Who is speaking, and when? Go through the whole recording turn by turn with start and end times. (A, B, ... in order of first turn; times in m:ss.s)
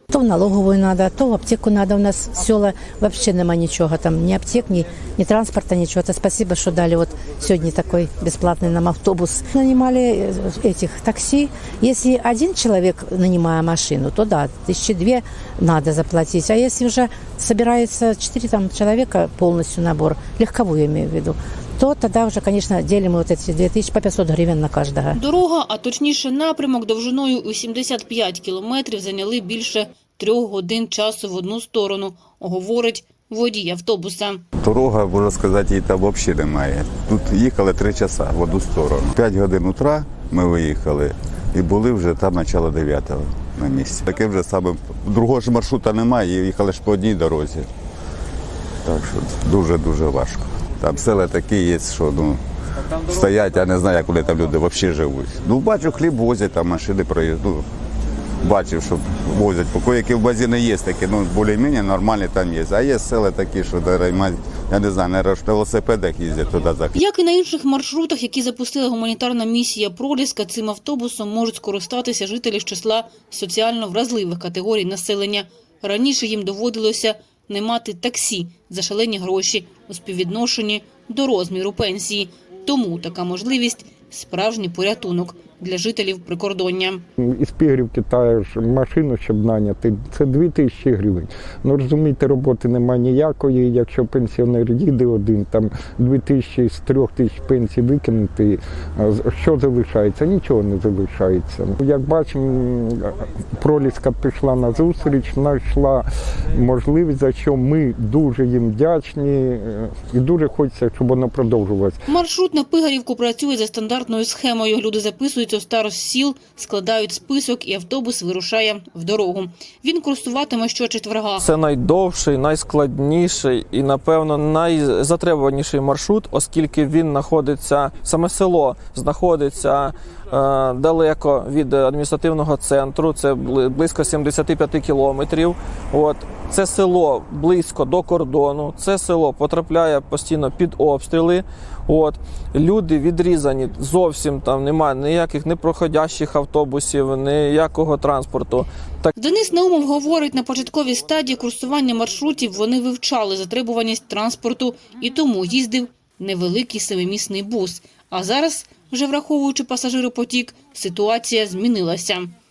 0:00.1-0:25.2 A
0:25.2-0:34.4 B
0:34.6-0:47.7 C
0:48.8-0:57.7 C
0:58.4-1:07.0 C
1:07.0-1:27.0 B
1:27.2-1:52.0 D
1:52.1-2:01.5 B
2:01.4-2:29.1 E
2:29.2-2:42.3 B